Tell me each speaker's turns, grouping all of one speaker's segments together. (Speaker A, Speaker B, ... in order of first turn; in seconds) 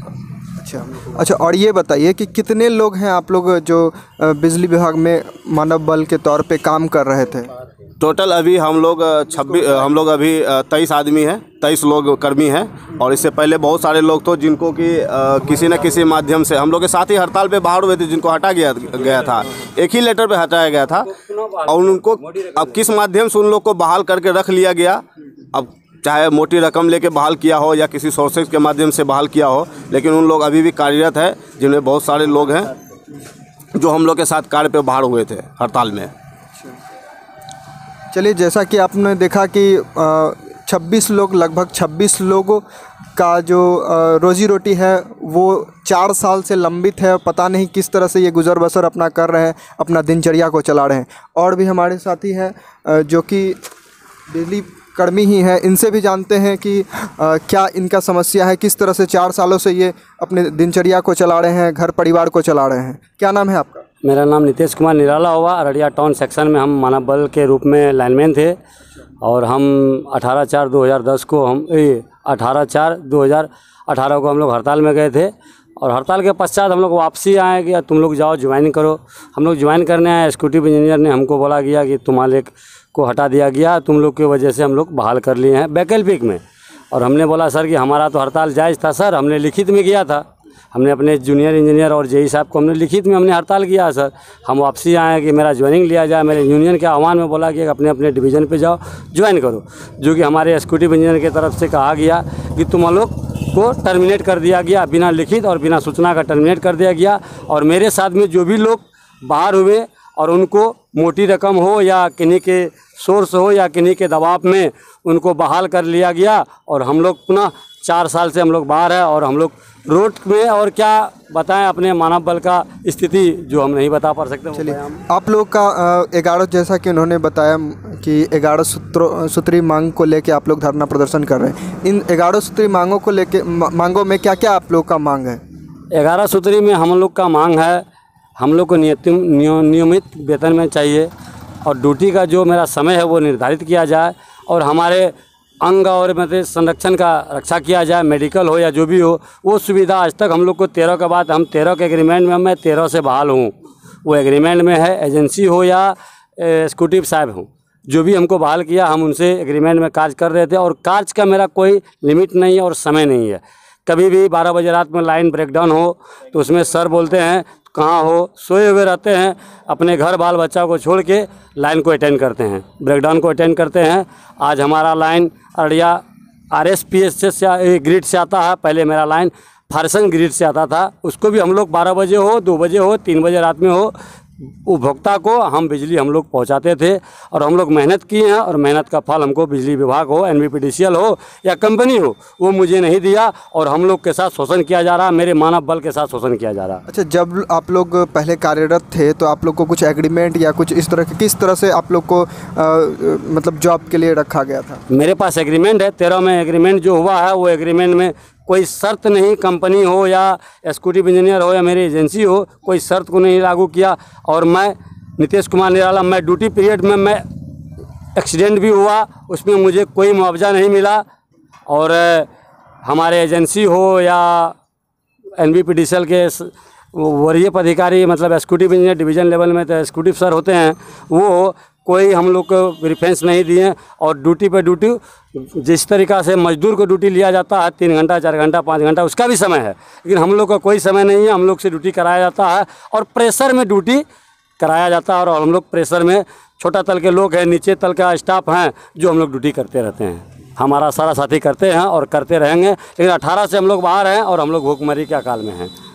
Speaker A: 0.6-7.5, 38.1-42.6, 43.1-53.6, 54.3-63.9, 124.5-135.4, 196.9-204.8
Speaker B: 8.0-21.1, 21.7-32.7, 33.8-36.1
Speaker C: 21.1-22.8, 64.0-68.6, 69.2-125.0, 135.9-137.8, 138.4-141.1, 141.6-153.5, 154.1-183.9, 184.7-196.8, 204.9-217.2, 218.2-221.0, 221.7-222.3, 222.8-224.6, 225.4-244.1, 244.6-255.7